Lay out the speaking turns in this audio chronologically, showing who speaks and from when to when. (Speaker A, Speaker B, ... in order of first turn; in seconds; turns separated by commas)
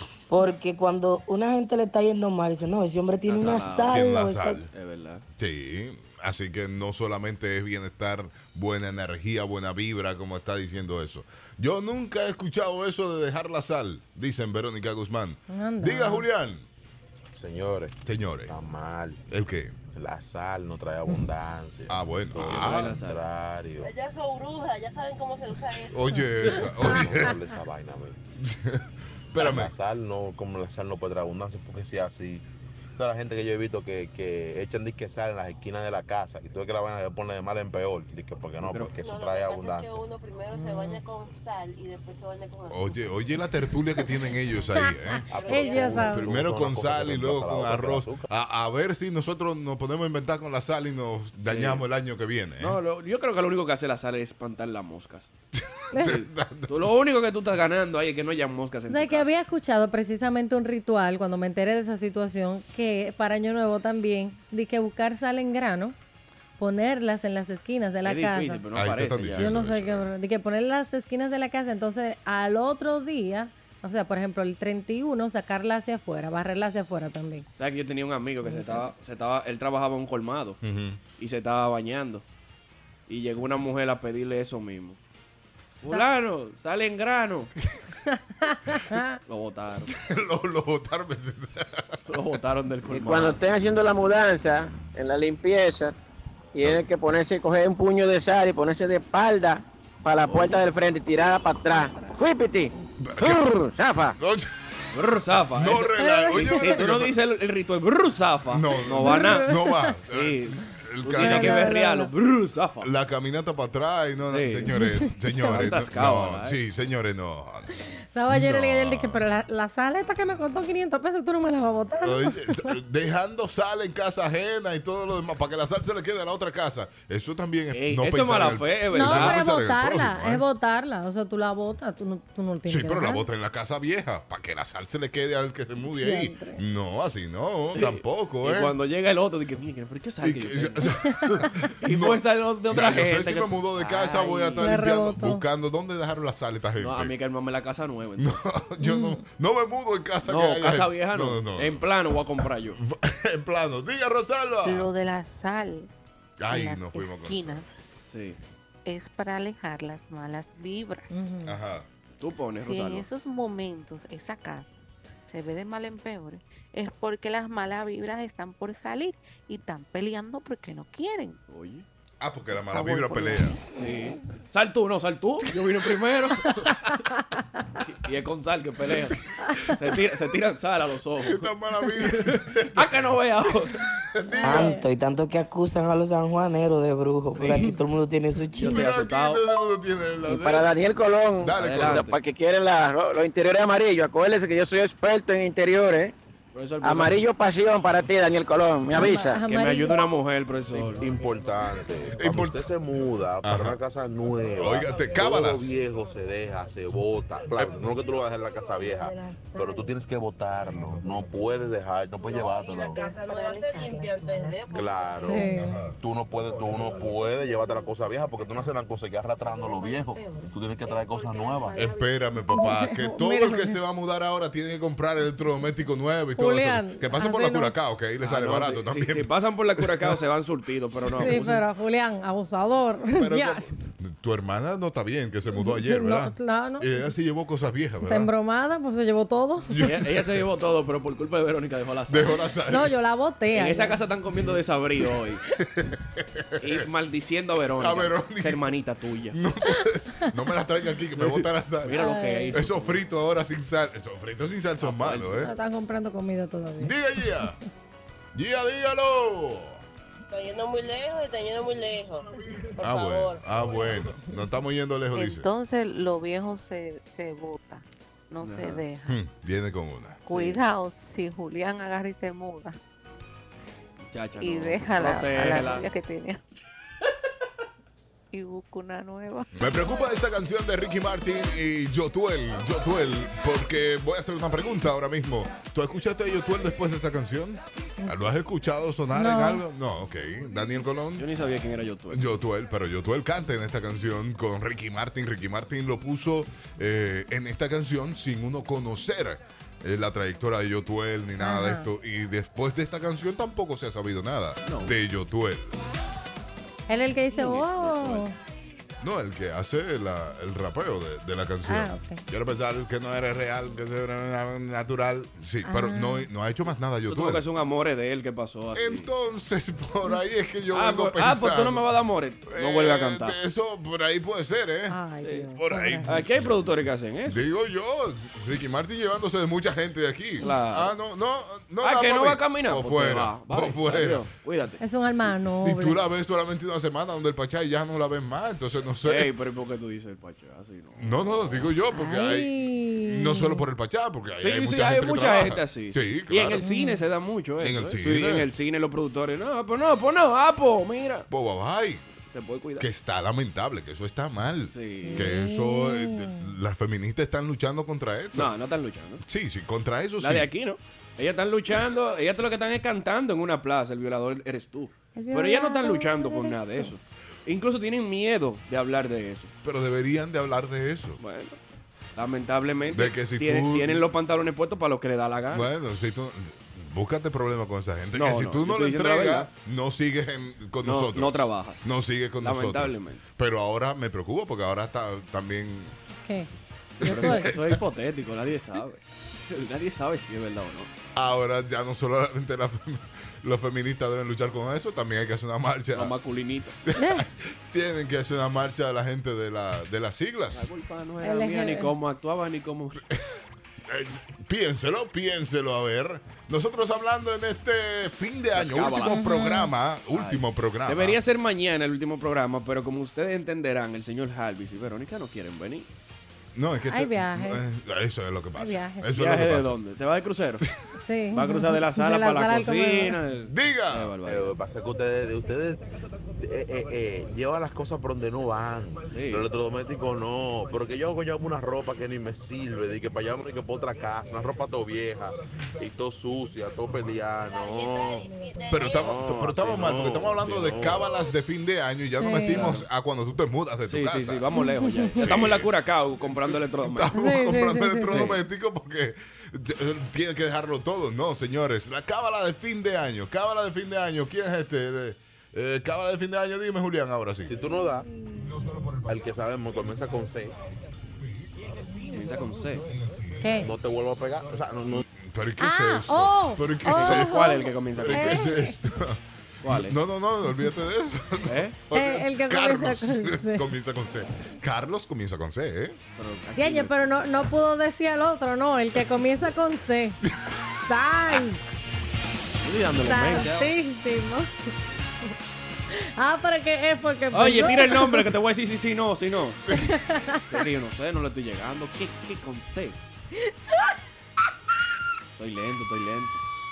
Speaker A: 0.3-4.6, Speaker B: 3.3-4.1, Speaker C: 3.9-4.7, Speaker B: 4.7-5.2, Speaker C: 5.4-16.6, Speaker D: 15.5-16.3, Speaker E: 17.3-19.2, Speaker C: 18.0-18.5, Speaker C: 19.3-19.8, Speaker E: 19.9-23.9, Speaker C: 21.9-22.9, Speaker B: 22.4-23.2, Speaker F: 23.9-26.1, Speaker C: 25.9-27.4, Speaker E: 26.6-28.2, Speaker C: 28.4-29.7, Speaker E: 29.4-32.4, Speaker E: 33.0-40.0, Speaker B: 38.6-38.9, Speaker F: 39.0-43.1, Speaker D: 40.5-41.0, Speaker C: 42.7-52.8, Speaker D: 44.7-46.3, Speaker E: 45.3-48.3, Speaker F: 45.3-46.1, Speaker B: 51.4-51.8, Speaker B: 52.6-55.3, Speaker C: 55.6-56.7, Speaker D: 55.9-56.2, Speaker B: 56.0-59.3, Speaker D: 58.9-65.9, Speaker D: 66.6-68.6, Speaker B: 68.0-69.6, Speaker C: 68.7-70.1, Speaker D: 69.4-77.5, Speaker B: 77.6-80.6, Speaker D: 78.4-78.9, Speaker C: 80.6-81.0, Speaker B: 81.2-82.2, Speaker B: 83.1-85.0, Speaker B: 85.8-87.5, Speaker D: 88.1-89.2, Speaker B: 89.3-89.9, Speaker C: 89.9-92.0, Speaker B: 92.1-93.4, Speaker G: 92.9-95.9, Speaker G: 96.5-104.2, Speaker B: 100.2-100.6, Speaker C: 103.0-103.4, Speaker C: 104.2-104.5, Speaker B: 104.9-109.5, Speaker C: 105.5-107.1, Speaker D: 106.0-106.8, Speaker C: 108.5-111.7, Speaker D: 109.0-109.9, Speaker B: 110.1-112.9, Speaker D: 111.1-112.1, Speaker C: 112.8-119.2, Speaker B: 114.3-114.7, Speaker D: 114.7-115.7, Speaker B: 115.4-116.6, Speaker D: 118.1-122.8, Speaker C: 122.0-130.4, Speaker B: 127.7-129.4, Speaker D: 128.9-133.2, Speaker C: 132.7-138.7, Speaker D: 135.9-136.6, Speaker B: 137.7-144.7, Speaker C: 140.2-147.1, Speaker D: 144.6-145.4, Speaker B: 146.8-148.4, Speaker C: 148.2-151.8, Speaker D: 148.8-149.2, Speaker B: 150.2-152.8, Speaker C: 152.8-154.9, Speaker H: 154.6-155.9, Speaker C: 156.4-157.6, Speaker H: 156.5-157.7, Speaker B: 158.1-158.4, Speaker H: 158.8-161.1, Speaker D: 161.1-161.6, Speaker C: 161.4-161.8, Speaker B: 162.2-163.1, Speaker H: 162.6-164.8, Speaker H: 165.3-171.4, Speaker B: 171.5-171.8, Speaker C: 172.2-173.6, Speaker H: 172.7-173.5, Speaker B: 173.8-176.7, Speaker B: 177.8-183.8, Speaker C: 181.2-183.0, Speaker C: 184.1-184.7, Speaker D: 184.3-184.9, Speaker A: 184.4-188.8, Speaker B: 187.3-187.7, Speaker B: 188.5-189.4, Speaker C: 188.6-190.7, Speaker G: 190.2-196.1, Speaker C: 191.4-192.0, Speaker B: 191.6-192.2, Speaker B: 196.5-197.2, Speaker G: 196.8-199.4, Speaker D: 198.9-200.1, Speaker B: 199.4-201.1, Speaker E: 200.7-213.1, Speaker C: 202.2-202.6, Speaker C: 203.4-203.8, Speaker C: 204.6-205.8, Speaker F: 212.7-215.3, Speaker E: 214.7-221.9, Speaker D: 215.2-215.7, Speaker C: 221.7-230.1, Speaker D: 222.5-223.8, Speaker D: 226.4-227.7, Speaker B: 228.2-231.7, Speaker C: 230.9-231.4, Speaker D: 231.0-233.7, Speaker C: 233.1-238.3, Speaker D: 235.5-237.1, Speaker D: 238.0-239.9, Speaker C: 239.7-240.1, Speaker B: 239.8-242.4, Speaker C: 242.1-242.9, Speaker D: 242.7-244.0, Speaker B: 243.5-245.4, Speaker C: 245.6-246.8, Speaker B: 246.6-249.4, Speaker C: 247.8-248.6, Speaker C: 249.3-255.5, Speaker B: 251.2-253.0, Speaker D: 251.9-252.6, Speaker B: 254.8-255.5, Speaker D: 255.4-257.4, Speaker C: 256.8-257.6, Speaker C: 258.3-259.8, Speaker F: 260.3-263.4, Speaker C: 262.8-265.5, Speaker H: 265.1-269.2, Speaker B: 268.4-268.8, Speaker C: 269.1-270.2, Speaker H: 270.2-272.8, Speaker B: 270.3-270.6, Speaker B: 274.1-275.9, Speaker H: 274.4-276.4, Speaker H: 278.3-279.5, Speaker C: 279.5-291.2, Speaker D: 288.0-288.3, Speaker D: 289.1-289.6, Speaker B: 291.2-292.4, Speaker C: 292.1-305.8, Speaker D: 301.4-301.9, Speaker B: 304.6-304.9, Speaker D: 306.9-308.3, Speaker B: 307.3-308.2, Speaker C: 309.0-317.4, Speaker D: 311.6-312.2, Speaker D: 315.6-316.3, Speaker B: 317.1-319.1, Speaker C: 318.7-321.8, Speaker B: 320.7-323.4, Speaker C: 322.5-325.0, Speaker D: 324.9-326.2, Speaker C: 325.6-326.7, Speaker B: 326.1-327.4, Speaker C: 327.3-334.2, Speaker B: 330.4-330.9, Speaker B: 331.8-334.8, Speaker D: 334.8-336.0, Speaker C: 335.6-339.3, Speaker B: 339.0-341.7, Speaker C: 341.0-346.7, Speaker D: 341.9-343.6, Speaker B: 344.4-351.3, Speaker D: 346.6-347.0, Speaker C: 347.6-348.5, Speaker C: 351.3-352.0, Speaker B: 352.3-352.9, Speaker C: 352.8-358.5, Speaker B: 354.7-355.3, Speaker D: 355.0-356.5, Speaker B: 358.3-359.2, Speaker C: 359.2-360.5, Speaker B: 360.2-369.5, Speaker D: 365.1-366.9, Speaker C: 369.6-371.2, Speaker B: 371.2-371.6, Speaker B: 372.1-375.7, Speaker C: 372.9-374.0, Speaker C: 375.5-385.9, Speaker B: 378.1-379.5, Speaker B: 380.8-381.8, Speaker B: 382.4-383.2, Speaker C: 387.0-387.8, Speaker B: 387.0-390.9, Speaker D: 387.0-387.5, Speaker C: 391.1-396.1, Speaker B: 395.9-396.8, Speaker C: 396.9-400.7, Speaker D: 396.9-397.2, Speaker B: 400.5-403.0, Speaker D: 401.2-401.9, Speaker C: 403.1-403.4, Speaker C: 403.9-411.2, Speaker B: 408.5-409.3, Speaker D: 409.0-409.7, Speaker B: 410.1-415.9, Speaker C: 416.5-419.7, Speaker D: 416.9-417.6, Speaker D: 418.6-419.1, Speaker B: 419.1-420.6, Speaker D: 421.0-423.2, Speaker B: 421.3-424.6, Speaker C: 423.5-424.1, Speaker E: 424.2-441.1, Speaker B: 429.1-429.4, Speaker F: 438.3-439.0, Speaker C: 438.7-444.4, Speaker D: 442.1-442.7, Speaker B: 442.5-442.9, Speaker B: 443.9-447.2, Speaker D: 444.5-445.3, Speaker C: 445.1-457.6, Speaker D: 447.1-448.3, Speaker B: 448.1-448.4, Speaker E: 457.4-458.1, Speaker C: 458.6-458.9, Speaker E: 459.1-460.6, Speaker B: 462.1-462.9, Speaker C: 462.9-463.4, Speaker D: 463.4-463.7, Speaker E: 463.6-465.0, Speaker C: 465.1-476.0, Speaker D: 465.6-468.8, Speaker B: 466.9-468.5, Speaker B: 469.6-470.0, Speaker B: 471.4-471.8, Speaker D: 471.9-473.7, Speaker B: 476.1-477.2, Speaker D: 476.6-480.2, Speaker D: 480.9-481.6, Speaker B: 482.6-483.7, Speaker D: 483.0-484.5, Speaker D: 485.9-488.3, Speaker B: 487.3-489.7, Speaker D: 489.7-490.4, Speaker B: 490.5-493.0, Speaker B: 495.4-496.4